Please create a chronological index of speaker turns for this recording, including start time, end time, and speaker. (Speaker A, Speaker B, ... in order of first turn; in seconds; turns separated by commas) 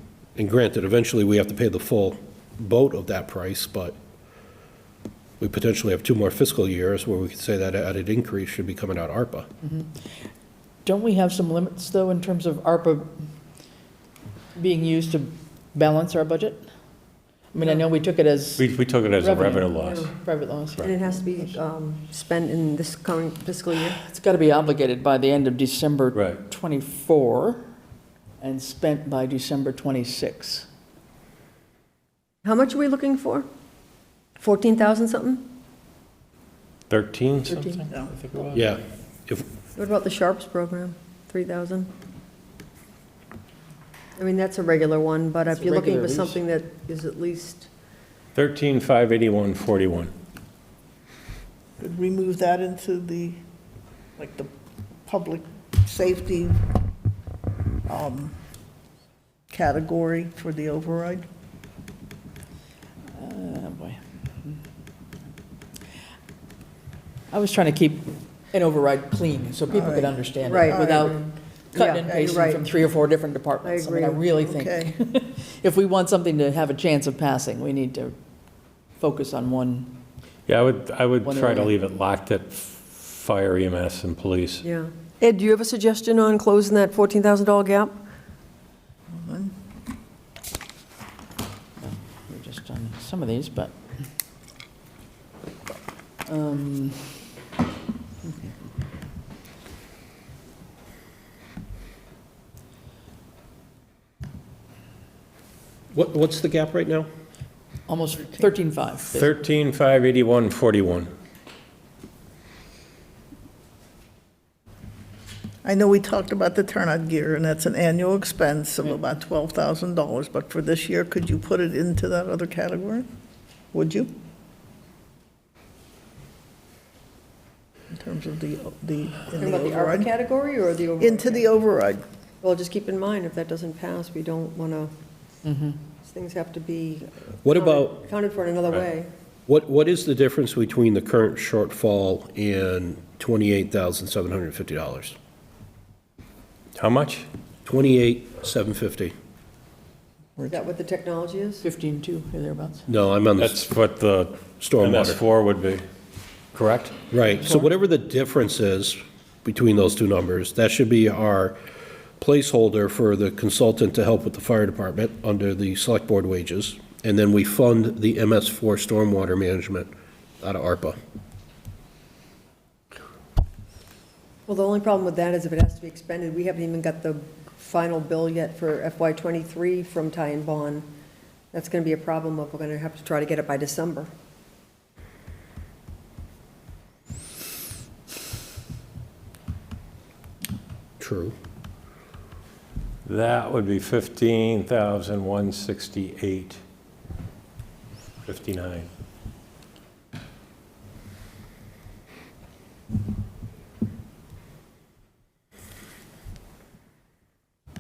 Speaker A: 0.4-4.0, Speaker A: 5.4-9.5, Speaker B: 9.6-9.9, Speaker B: 10.8-13.1, Speaker B: 14.6-16.7, Speaker B: 17.5-18.6, Speaker C: 18.6-20.1, Speaker B: 19.2-21.5, Speaker D: 19.8-20.1, Speaker D: 20.8-24.0, Speaker B: 23.9-27.6, Speaker C: 26.1-26.4, Speaker B: 28.4-30.7, Speaker D: 32.4-33.5, Speaker D: 34.4-35.5, Speaker C: 36.9-38.7, Speaker A: 38.5-39.5, Speaker D: 39.8-41.9, Speaker D: 44.2-47.7, Speaker B: 45.5-46.4, Speaker C: 48.4-50.1, Speaker E: 51.8-53.4, Speaker E: 54.2-54.5, Speaker E: 55.1-56.6, Speaker E: 57.9-58.3, Speaker E: 59.5-61.3, Speaker B: 63.2-64.0, Speaker B: 67.3-71.2, Speaker E: 69.7-71.1, Speaker D: 70.4-72.7, Speaker B: 71.7-78.2, Speaker D: 73.6-74.5, Speaker E: 74.5-74.9, Speaker B: 79.0-79.9, Speaker C: 80.5-84.7, Speaker B: 81.2-81.8, Speaker D: 84.6-87.9, Speaker E: 89.2-89.5, Speaker B: 91.8-93.8, Speaker B: 96.3-97.2, Speaker B: 98.3-98.5, Speaker A: 105.9-107.1, Speaker B: 107.9-109.3, Speaker C: 109.1-111.1, Speaker E: 115.6-123.1, Speaker E: 123.7-124.1, Speaker E: 127.9-130.1, Speaker D: 129.4-131.5, Speaker E: 131.0-132.0, Speaker D: 132.4-134.9, Speaker B: 135.5-135.8, Speaker D: 136.0-139.1, Speaker A: 137.4-138.1, Speaker A: 139.5-145.2, Speaker C: 146.8-147.3, Speaker A: 147.7-149.1, Speaker D: 150.5-151.7, Speaker B: 151.6-152.9, Speaker A: 152.9-153.5, Speaker C: 153.4-155.8, Speaker A: 154.6-155.2, Speaker C: 156.5-157.0, Speaker A: 157.1-161.6, Speaker B: 157.4-157.7, Speaker A: 162.2-171.0, Speaker D: 174.5-180.9, Speaker D: 181.5-184.1, Speaker A: 191.0-191.3, Speaker C: 193.1-196.6, Speaker C: 198.2-198.9